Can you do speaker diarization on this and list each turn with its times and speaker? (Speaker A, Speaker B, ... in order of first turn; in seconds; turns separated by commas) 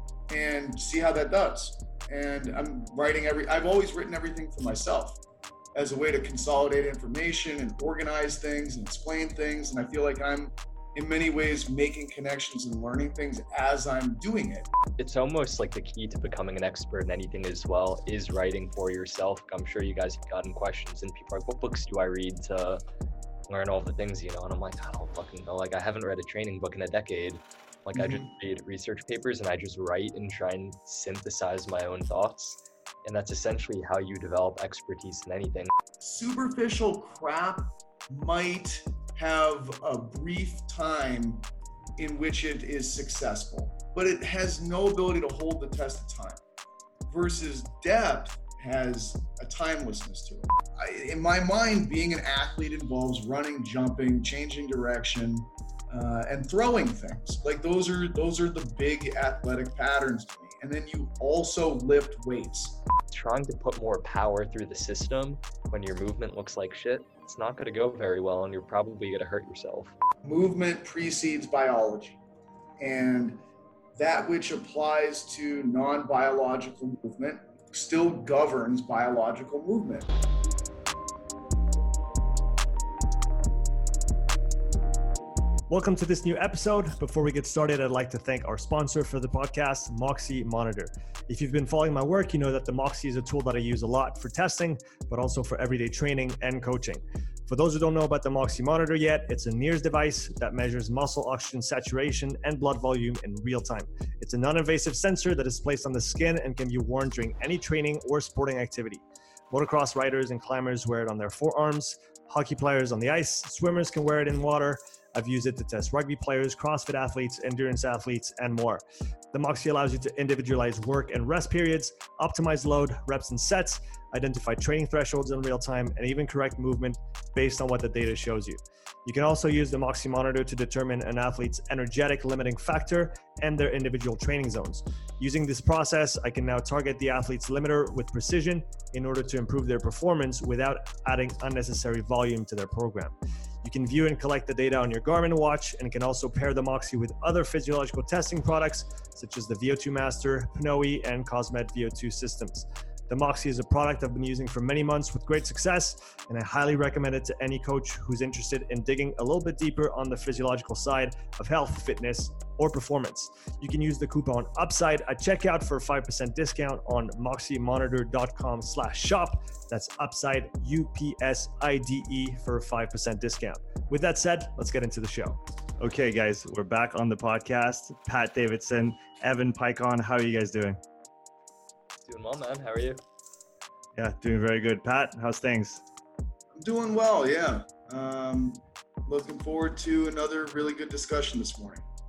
Speaker A: 0.3-5.2, Speaker A: 5.7-14.7, Speaker B: 15.0-22.8, Speaker B: 23.5-35.7, Speaker A: 27.9-28.3, Speaker A: 36.0-41.4, Speaker A: 42.0-46.4, Speaker A: 47.1-62.8, Speaker B: 63.1-70.0, Speaker A: 70.2-72.2, Speaker A: 72.8-73.4, Speaker A: 74.0-80.1, Speaker C: 85.7-180.8, Speaker B: 182.1-183.0, Speaker C: 184.0-185.8, Speaker A: 186.5-191.8